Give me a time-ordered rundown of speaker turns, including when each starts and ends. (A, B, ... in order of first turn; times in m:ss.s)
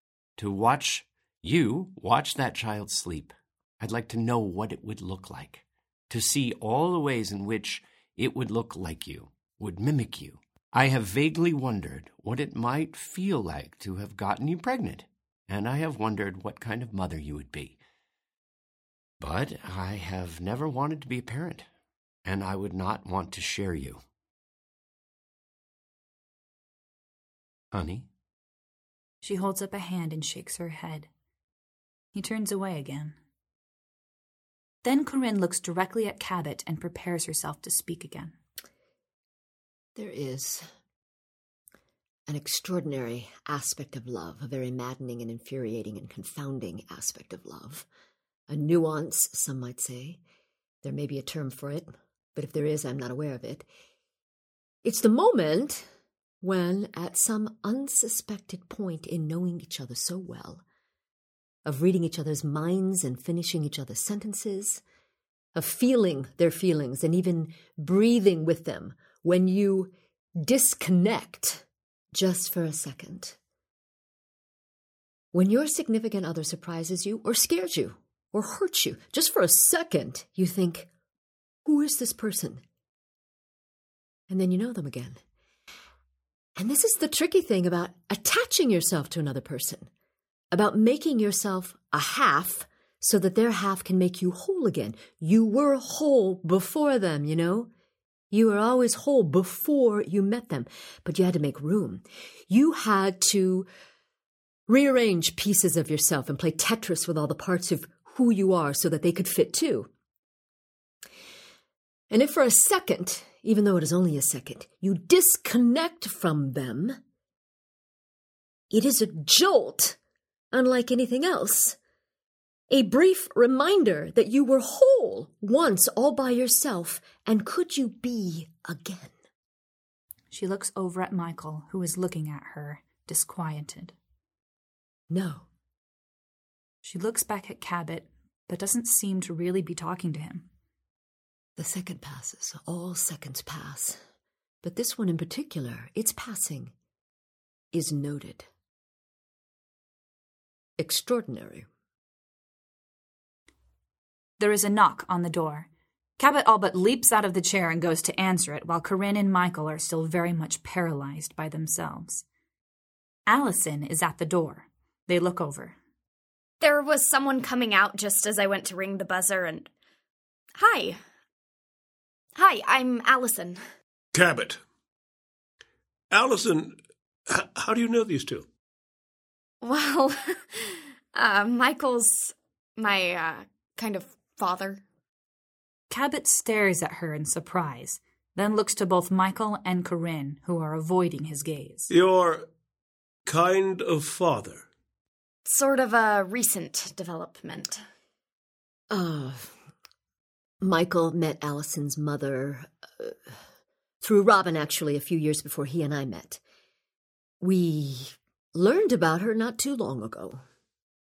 0:00.4-0:17.8 A
0:19.2-0:21.6 A
0:22.2-0:24.0 A
0:27.7-0:28.1 A
0:29.2-0:31.1 B
0:32.1-0:33.2 B
0:34.8-0:38.4 B
0:40.0-0:40.7 C
0:42.3-0:47.9 C
0:48.5-0:50.2 C
0:50.8-0:53.7 C
0:54.8-0:55.9 C
0:56.4-1:00.6 C
1:01.6-1:04.8 C
1:05.6-1:13.4 C
1:15.3-1:20.9 C
1:21.6-1:22.6 C
1:24.3-1:25.2 C
1:26.6-1:29.9 C
1:30.5-1:37.7 C
1:38.3-1:43.7 C
1:44.7-1:49.9 C
1:52.1-1:57.0 C
1:58.7-2:00.0 C
2:00.5-2:01.8 C
2:02.7-2:09.1 C
2:10.3-2:13.9 B
2:15.1-2:15.5 C
2:16.8-2:20.5 B
2:21.6-2:24.0 C
2:24.6-2:26.7 C
2:27.7-2:28.5 C
2:30.8-2:31.7 C
2:34.4-2:42.2 B
2:43.3-2:45.8 B
2:46.6-2:49.7 D
2:50.6-2:51.0 D
2:52.4-2:53.6 D
2:54.1-2:54.6 E
2:56.1-2:58.5 E
2:59.6-3:04.8 D
3:05.9-3:11.9 B
3:11.9-3:12.5 E
3:13.2-3:14.7 E
3:15.4-3:17.8 D
3:18.9-3:19.5 C
3:20.6-3:23.2 C
3:24.0-3:26.4 C
3:27.4-3:30.4 C